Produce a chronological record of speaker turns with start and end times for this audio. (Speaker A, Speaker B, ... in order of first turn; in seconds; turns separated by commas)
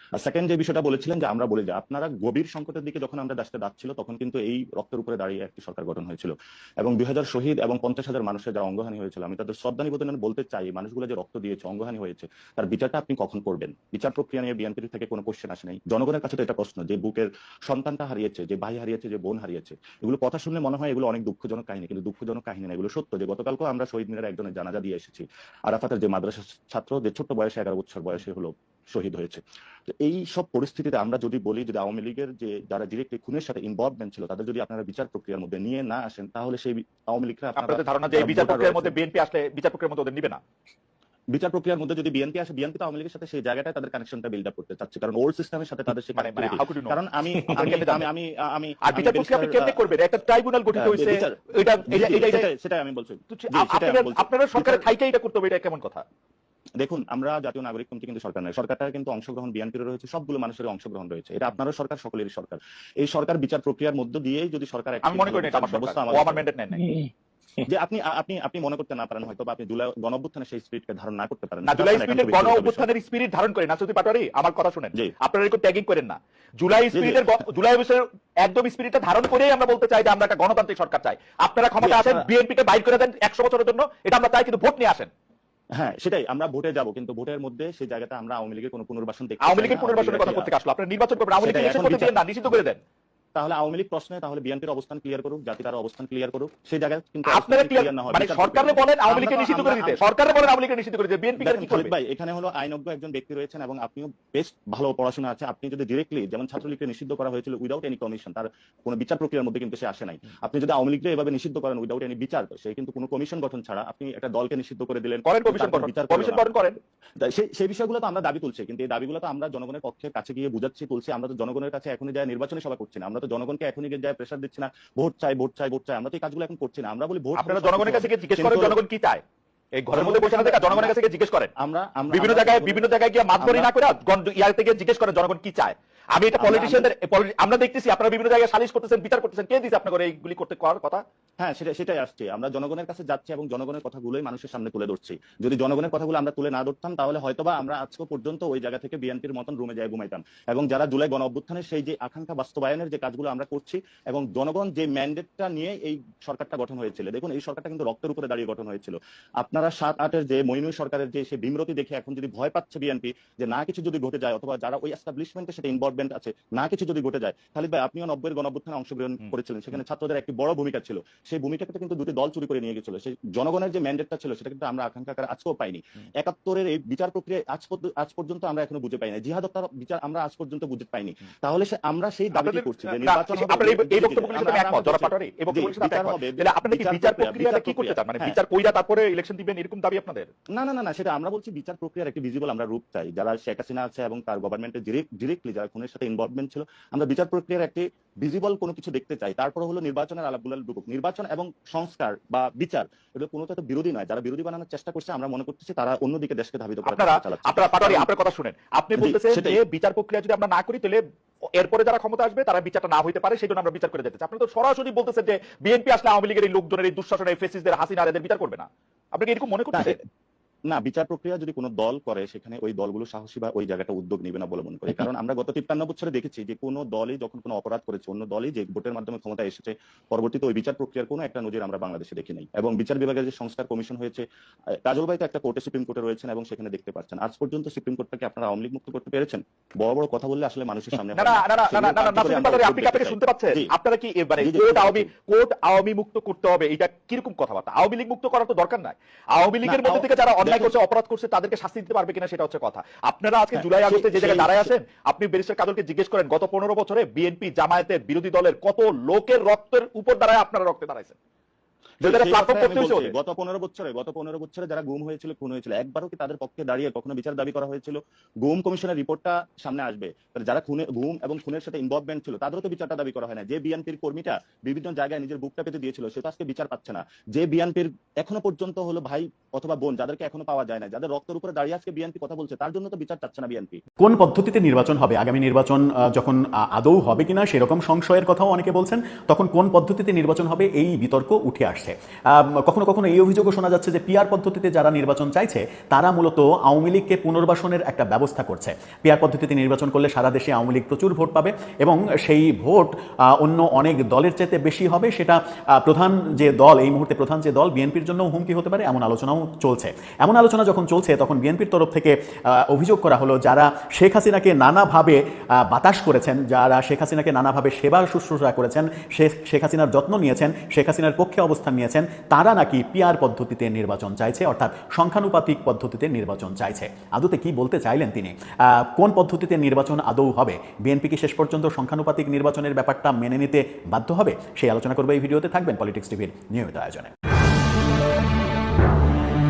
Speaker A: 0.2-38.9, Speaker B: 37.6-40.4, Speaker A: 41.3-49.9, Speaker B: 46.2-48.1, Speaker B: 48.8-52.5, Speaker A: 50.8-51.3, Speaker A: 51.9-54.9, Speaker B: 53.3-56.0, Speaker A: 56.8-66.5, Speaker B: 65.0-66.8, Speaker A: 67.7-72.9, Speaker B: 71.6-85.1, Speaker A: 76.9-77.3, Speaker A: 81.8-82.2, Speaker A: 85.8-90.5, Speaker B: 89.4-92.8, Speaker A: 91.4-92.6, Speaker A: 93.3-100.0, Speaker B: 97.3-101.9, Speaker A: 101.4-116.5, Speaker B: 115.2-116.8, Speaker A: 117.2-128.8, Speaker B: 127.4-129.2, Speaker B: 129.8-131.5, Speaker A: 129.9-131.0, Speaker A: 131.6-133.7, Speaker B: 132.1-141.0, Speaker A: 136.4-136.9, Speaker A: 141.4-188.4, Speaker B: 182.3-190.3, Speaker A: 190.5-208.1, Speaker B: 206.8-211.0, Speaker A: 209.0-209.6, Speaker B: 211.5-220.0, Speaker A: 220.7-234.2, Speaker A: 234.8-243.7, Speaker B: 241.1-261.1, Speaker A: 244.4-245.1, Speaker A: 249.6-250.8, Speaker A: 253.6-254.7, Speaker A: 262.0-283.8, Speaker B: 262.0-263.1, Speaker C: 284.0-337.1